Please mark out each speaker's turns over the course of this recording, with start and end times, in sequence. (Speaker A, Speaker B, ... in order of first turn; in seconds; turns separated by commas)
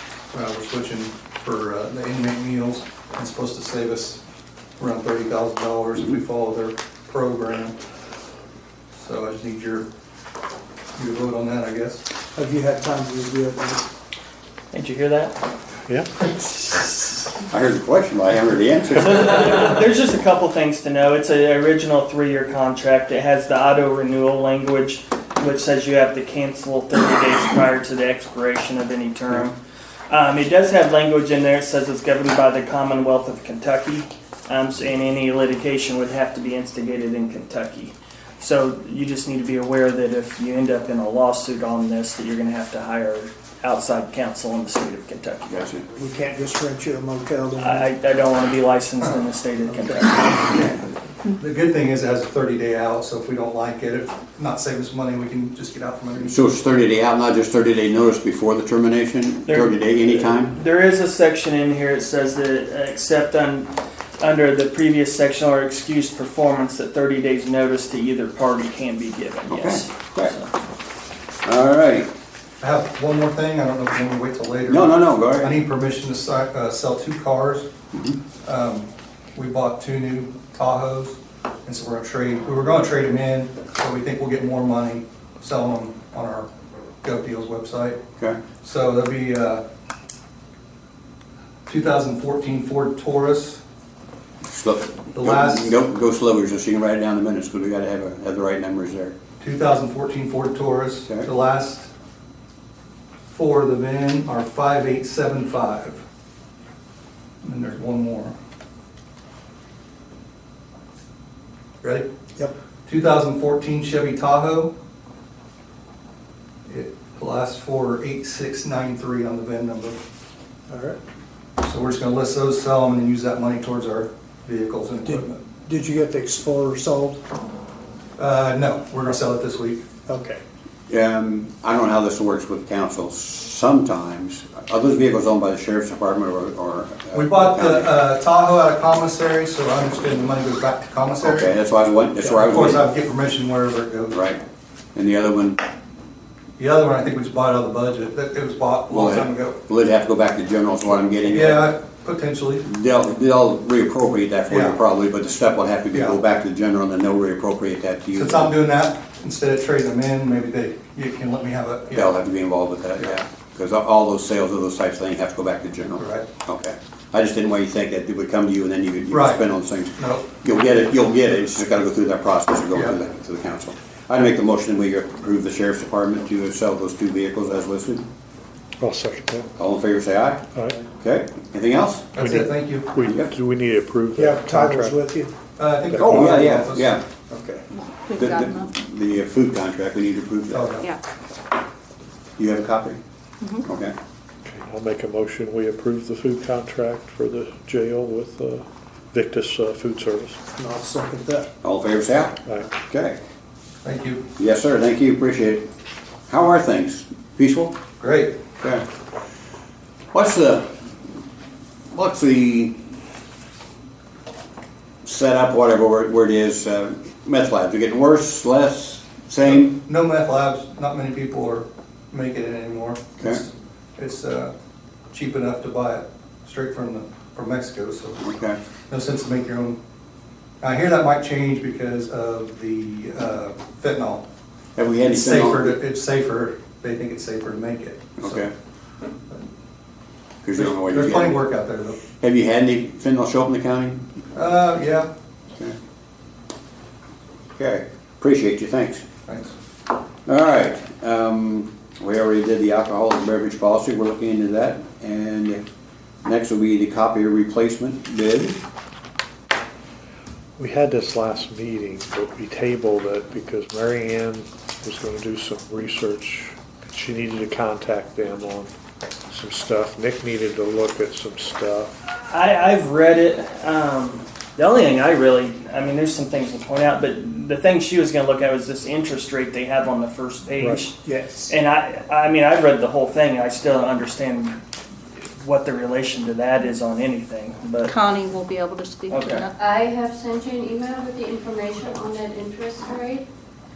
Speaker A: 0.3-4.2, Speaker A: 4.8-7.8, Speaker A: 8.9-9.9, Speaker A: 10.9-12.0, Speaker B: 12.3-13.8, Speaker C: 14.7-15.4, Speaker C: 16.2-17.3, Speaker D: 17.5-19.8, Speaker C: 18.9-29.6, Speaker C: 30.1-45.7, Speaker D: 45.5-45.8, Speaker B: 46.0-47.9, Speaker C: 47.6-50.4, Speaker B: 49.7-50.0, Speaker A: 50.4-56.4, Speaker D: 56.3-60.6, Speaker C: 59.5-70.5, Speaker D: 69.5-70.3, Speaker D: 71.4-72.1, Speaker A: 72.6-77.7, Speaker D: 74.7-75.6, Speaker A: 78.4-86.5, Speaker A: 87.0-88.0, Speaker A: 88.6-89.6, Speaker A: 91.7-93.6, Speaker D: 94.4-99.1, Speaker A: 95.1-95.7, Speaker A: 99.4-101.9, Speaker A: 103.3-106.0, Speaker A: 107.4-108.3, Speaker A: 111.8-112.1, Speaker A: 112.8-114.7, Speaker A: 116.7-120.0, Speaker B: 120.7-121.0, Speaker A: 121.6-125.4, Speaker B: 125.0-127.2, Speaker A: 128.2-129.8, Speaker B: 130.1-130.4, Speaker D: 130.9-137.9, Speaker A: 137.1-141.5, Speaker D: 141.2-142.8, Speaker A: 142.2-144.2, Speaker D: 144.1-144.4, Speaker D: 144.9-145.6, Speaker A: 146.6-149.6, Speaker D: 148.9-151.7, Speaker A: 151.3-152.7, Speaker D: 152.6-158.5, Speaker A: 154.5-154.8, Speaker A: 155.9-156.2, Speaker A: 158.1-162.2, Speaker D: 161.9-178.1, Speaker A: 166.0-166.2, Speaker A: 169.1-169.4, Speaker A: 169.9-170.3, Speaker A: 172.7-173.0, Speaker E: 178.8-179.5, Speaker D: 179.6-180.4, Speaker E: 180.5-180.8, Speaker D: 180.9-182.1, Speaker A: 182.1-182.9, Speaker E: 182.2-185.0, Speaker D: 183.0-183.3, Speaker B: 184.1-185.3, Speaker A: 185.6-187.6, Speaker E: 185.9-186.6, Speaker D: 186.0-187.0, Speaker F: 187.7-188.7, Speaker D: 188.1-190.8, Speaker A: 190.5-190.9, Speaker D: 192.4-193.0, Speaker D: 193.6-193.9, Speaker E: 194.4-200.4, Speaker B: 200.5-201.5, Speaker D: 201.6-203.2, Speaker A: 203.8-204.2, Speaker D: 204.4-205.7, Speaker D: 206.3-207.8, Speaker A: 208.0-208.3, Speaker D: 210.1-210.7, Speaker D: 211.9-212.8, Speaker D: 215.0-219.7, Speaker A: 219.4-224.5, Speaker A: 225.1-228.2, Speaker D: 228.2-228.6, Speaker A: 228.9-229.8, Speaker A: 230.6-234.2, Speaker D: 234.8-235.7, Speaker A: 235.1-238.4, Speaker D: 238.2-238.5, Speaker D: 240.4-241.4, Speaker A: 240.5-242.0, Speaker D: 242.2-244.1, Speaker A: 244.3-245.1, Speaker D: 247.6-249.0, Speaker A: 249.2-249.5, Speaker D: 250.2-255.6, Speaker D: 256.2-258.6, Speaker E: 260.6-268.7, Speaker E: 269.3-271.9, Speaker C: 272.2-284.6, Speaker E: 280.6-280.9, Speaker B: 280.9-281.5, Speaker C: 285.4-287.9, Speaker F: 287.9-289.5, Speaker C: 289.1-289.5, Speaker G: 289.6-293.3